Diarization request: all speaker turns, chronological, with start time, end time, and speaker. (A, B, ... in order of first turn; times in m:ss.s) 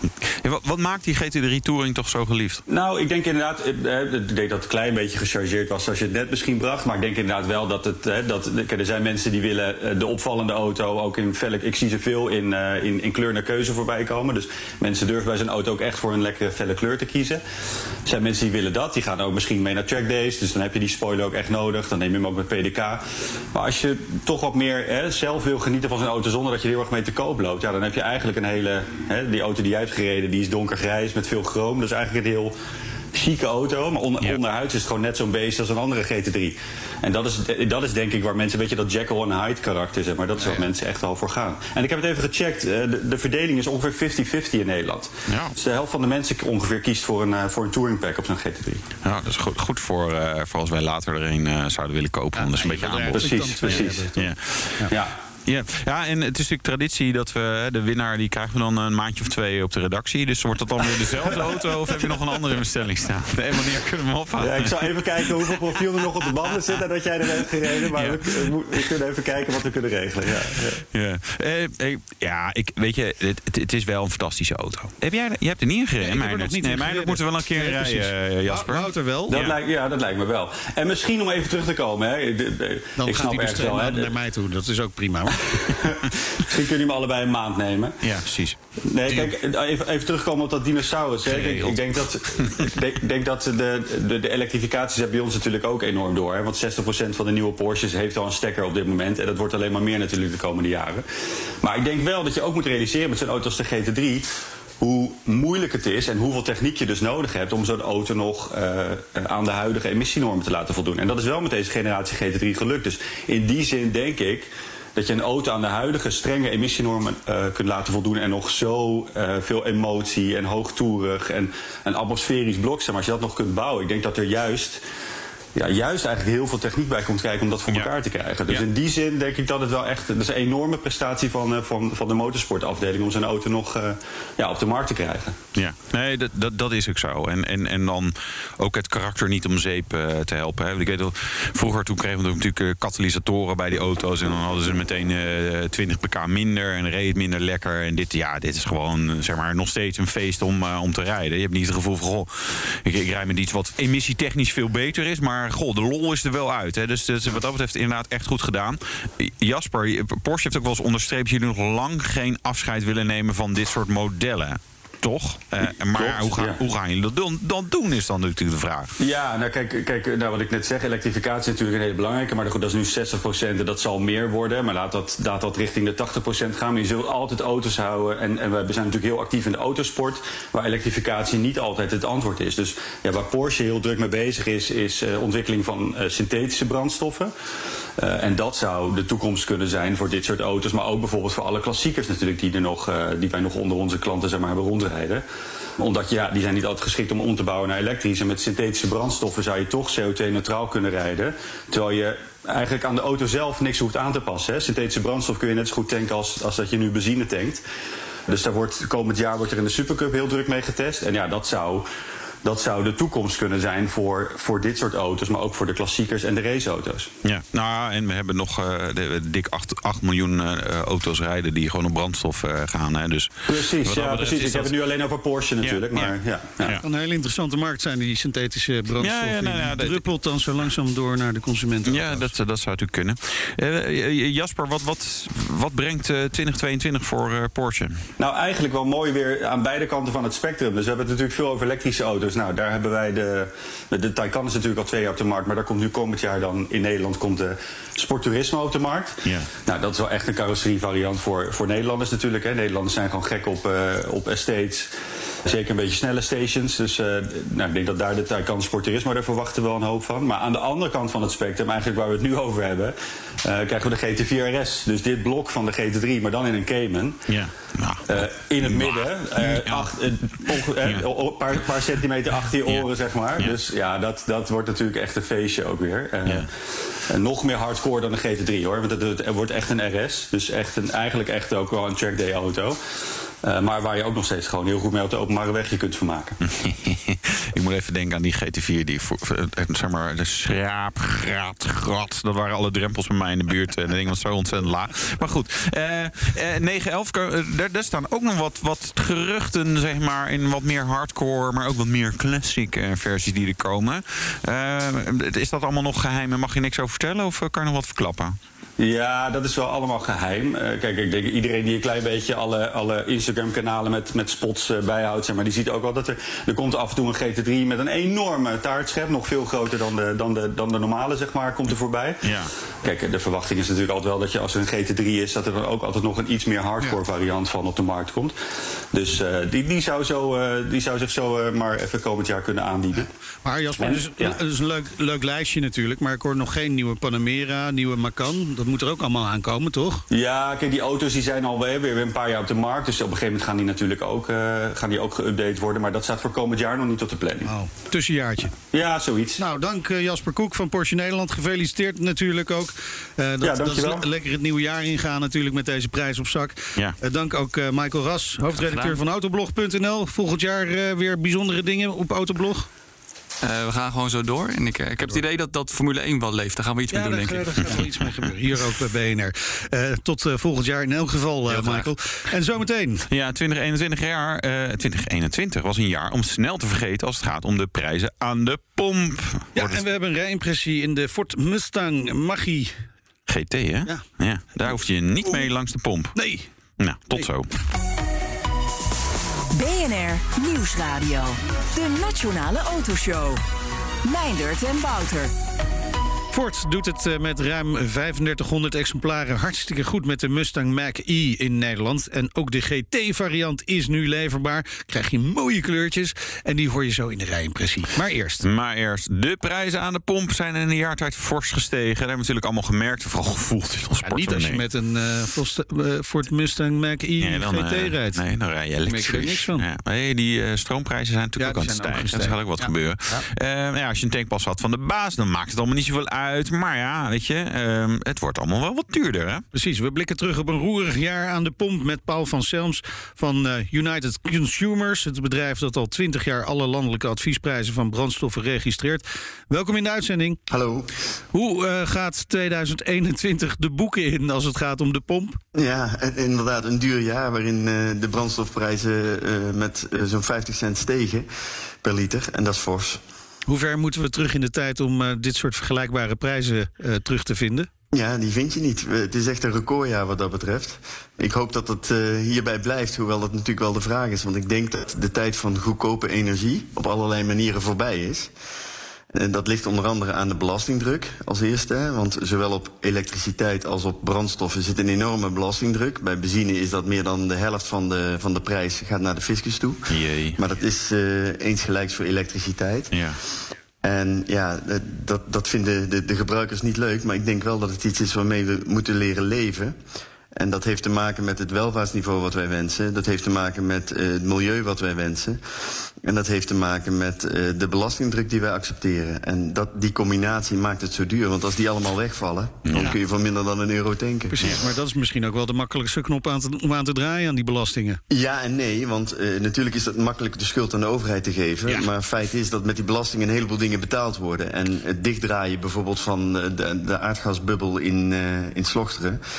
0:00.2-0:02.6 A
0:02.7-0:17.4 B
0:18.0-0:23.0 B
0:23.5-0:32.5 B
0:33.1-0:48.8 B
0:45.3-0:45.6 A
0:49.0-1:08.9 A
0:52.4-0:54.9 C
0:53.1-0:54.1 B
0:54.9-0:55.2 B
1:04.4-1:10.8 B
1:10.9-1:19.6 A
1:16.0-1:19.4 C
1:19.3-1:24.1 B
1:23.0-1:25.6 C
1:25.5-1:28.0 B
1:28.0-1:28.6 A
1:28.8-1:41.0 B
1:31.2-1:32.8 A
1:41.6-1:44.3 B
1:44.8-2:04.8 B
2:05.6-2:15.4 B
2:15.6-2:48.9 A
2:45.9-2:46.6 B
2:49.0-3:07.3 B
3:08.0-3:15.2 B
3:15.8-3:27.6 B
3:28.3-3:31.9 B
3:32.4-3:37.1 B
3:37.2-3:44.7 A
3:43.5-3:46.8 B
3:45.6-3:46.8 A
3:46.8-3:52.3 C
3:49.0-3:50.0 A
3:51.8-3:58.0 A
3:58.2-4:14.9 B
4:09.2-4:09.5 A
4:15.4-4:27.2 B
4:27.3-4:31.1 A
4:28.1-4:36.5 B
4:32.6-4:33.6 A
4:37.1-4:42.8 B
4:43.4-4:46.4 B
4:46.4-5:08.4 A
5:08.8-5:22.2 B
5:22.2-5:22.5 A
5:22.8-5:28.4 B
5:28.9-5:33.1 B
5:33.4-5:40.0 C
5:33.8-5:34.4 B
5:40.1-5:47.5 B
5:47.4-5:48.5 C
5:48.7-5:49.4 B
5:49.4-6:02.7 C
5:53.4-5:54.1 B
5:58.6-5:59.0 D
6:03.4-6:07.8 D
6:06.9-6:13.1 C
6:11.5-6:11.9 A
6:13.1-6:19.8 A
6:19.6-6:22.8 C
6:23.3-6:26.2 A
6:26.2-6:26.5 C
6:26.8-6:27.5 A
6:29.5-6:33.4 E
6:34.0-6:35.3 E
6:36.3-6:48.4 C
6:48.4-6:54.6 A
6:54.0-6:58.2 C
6:57.2-7:09.4 A
6:58.9-6:59.7 C
7:01.4-7:03.2 C
7:09.5-7:20.4 C
7:20.5-7:20.9 F
7:21.3-7:25.4 C
7:25.5-7:31.3 F
7:31.8-7:33.0 F
7:33.5-7:37.7 C
7:37.9-7:48.3 F
7:49.1-8:02.9 F
7:59.9-8:00.4 A
8:02.9-8:03.2 A
8:03.8-8:09.8 F
8:10.4-8:15.4 F
8:16.0-8:24.4 F
8:22.6-8:23.0 A
8:24.3-8:28.0 C
8:28.1-8:39.2 F